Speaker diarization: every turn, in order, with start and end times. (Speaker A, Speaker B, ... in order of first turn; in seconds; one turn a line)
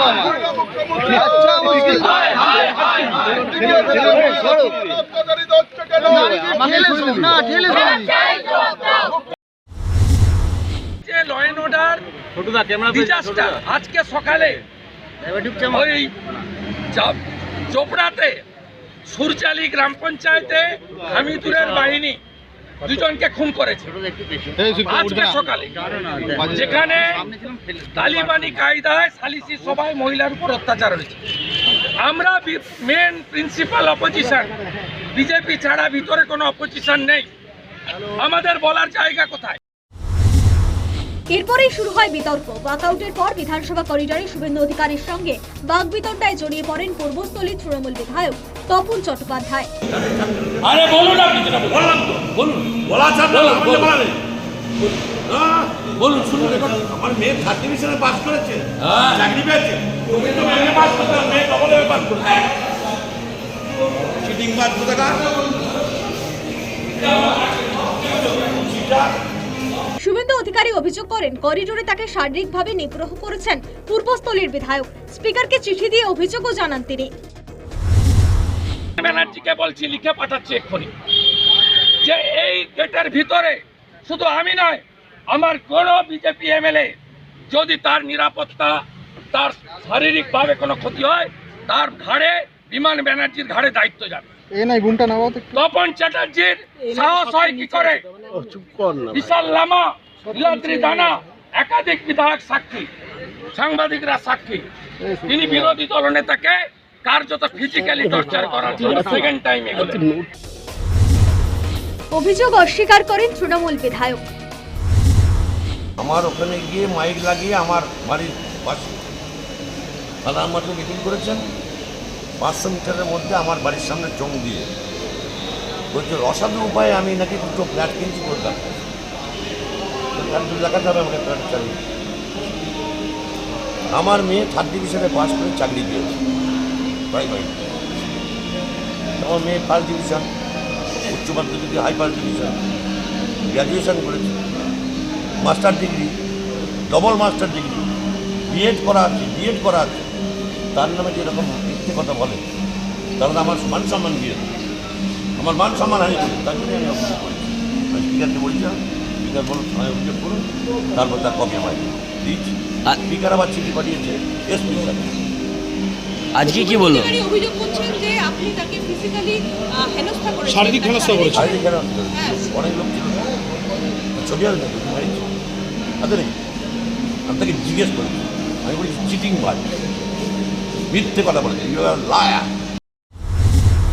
Speaker A: 1.0-2.0
Speaker B: 2.2-4.0
Speaker A: 3.8-4.9
Speaker A: 5.9-7.9
Speaker B: 7.7-9.1
Speaker B: 11.0-14.6
Speaker B: 15.5-16.1
Speaker B: 16.9-18.4
Speaker B: 19.1-22.2
Speaker B: 22.8-24.0
Speaker A: 24.6-25.1
Speaker B: 24.9-27.3
Speaker B: 27.9-31.2
Speaker B: 32.0-34.5
Speaker B: 35.1-37.3
Speaker B: 38.0-39.6
Speaker C: 41.3-49.7
Speaker D: 50.1-51.0
Speaker B: 50.6-52.0
Speaker D: 51.8-54.2
Speaker B: 53.3-53.9
Speaker D: 55.3-62.5
Speaker B: 58.9-59.2
Speaker D: 64.1-65.4
Speaker C: 70.0-77.1
Speaker B: 79.0-80.9
Speaker B: 82.0-87.0
Speaker B: 87.5-94.3
Speaker A: 94.6-95.5
Speaker B: 95.5-98.1
Speaker A: 98.5-98.9
Speaker B: 98.9-102.9
Speaker B: 103.5-104.6
Speaker B: 105.2-110.2
Speaker C: 112.1-114.3
Speaker D: 116.0-118.9
Speaker D: 120.2-121.4
Speaker D: 122.4-124.7
Speaker D: 125.9-128.8
Speaker D: 130.2-131.8
Speaker D: 133.9-136.2
Speaker D: 137.1-137.7
Speaker D: 139.2-140.3
Speaker D: 141.1-142.6
Speaker D: 143.5-144.4
Speaker D: 145.4-146.1
Speaker D: 146.9-147.9
Speaker D: 148.5-150.1
Speaker D: 150.7-152.4
Speaker D: 153.2-154.5
Speaker D: 155.4-165.1
Speaker A: 166.3-167.2
Speaker E: 166.5-171.5
Speaker D: 171.3-173.4
Speaker D: 174.2-175.3
Speaker D: 176.0-176.3
Speaker D: 177.3-179.7
Speaker D: 180.9-182.5